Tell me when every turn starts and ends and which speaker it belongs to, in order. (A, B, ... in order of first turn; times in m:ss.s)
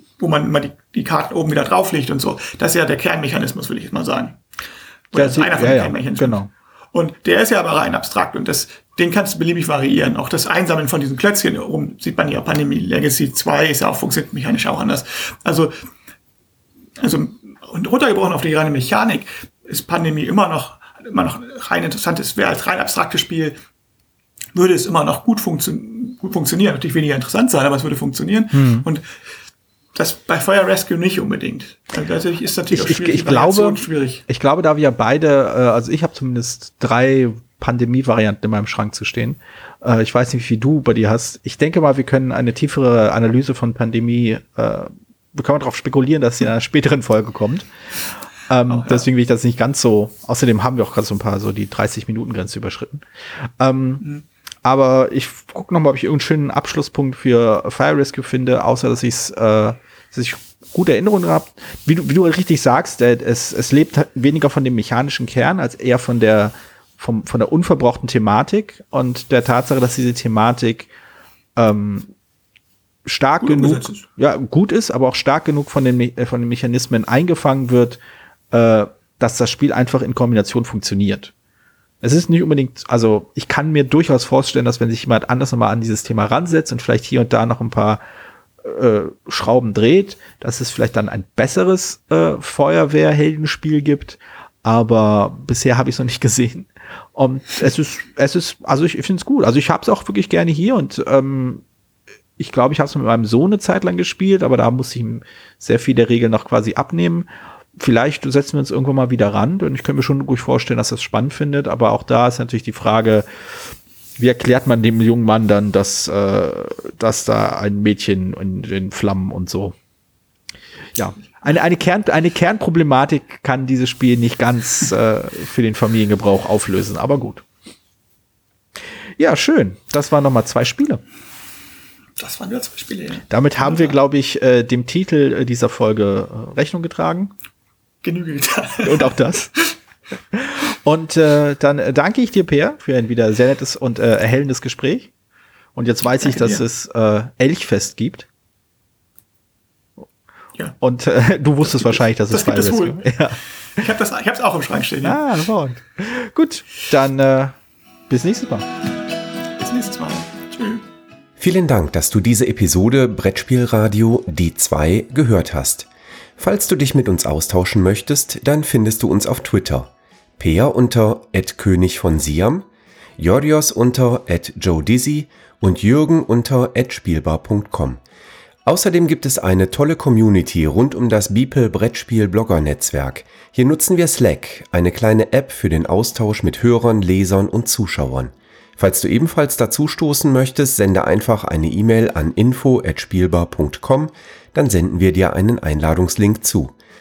0:00.2-0:04.4 A
0:05.1-0:06.4 A
0:05.1-0:06.5 B
0:06.9-0:15.7 A
0:17.0-0:23.6 A
0:24.5-0:29.0 A
0:28.5-0:28.8 B
0:30.0-0:34.2 A
0:32.7-0:47.7 B
0:48.5-0:53.0 B
0:48.7-0:49.1 A
0:53.6-0:54.0 B
0:54.6-1:10.9 B
1:11.6-1:12.1 B
1:13.0-1:18.0 B
1:13.4-1:14.0 A
1:18.5-1:21.3 B
1:22.0-1:28.0 B
1:28.6-1:41.6 B
1:42.4-1:53.2 B
1:54.2-1:59.8 B
2:00.9-2:07.4 B
2:09.2-2:11.0 B
2:12.2-2:14.0 A
2:13.3-2:17.3 B
2:18.0-2:19.3 A
2:18.8-2:19.5 B
2:20.3-2:25.1 B
2:25.7-2:28.3 B
2:26.2-2:26.6 A
2:30.8-2:33.4 B
2:31.7-2:33.1 A
2:33.7-2:35.2 A
2:35.0-2:37.6 B
2:38.1-2:38.6 B
2:39.6-2:40.8 A
2:41.4-2:45.9 C
2:46.4-2:52.7 C
2:53.2-2:58.0 C
2:58.6-3:16.7 C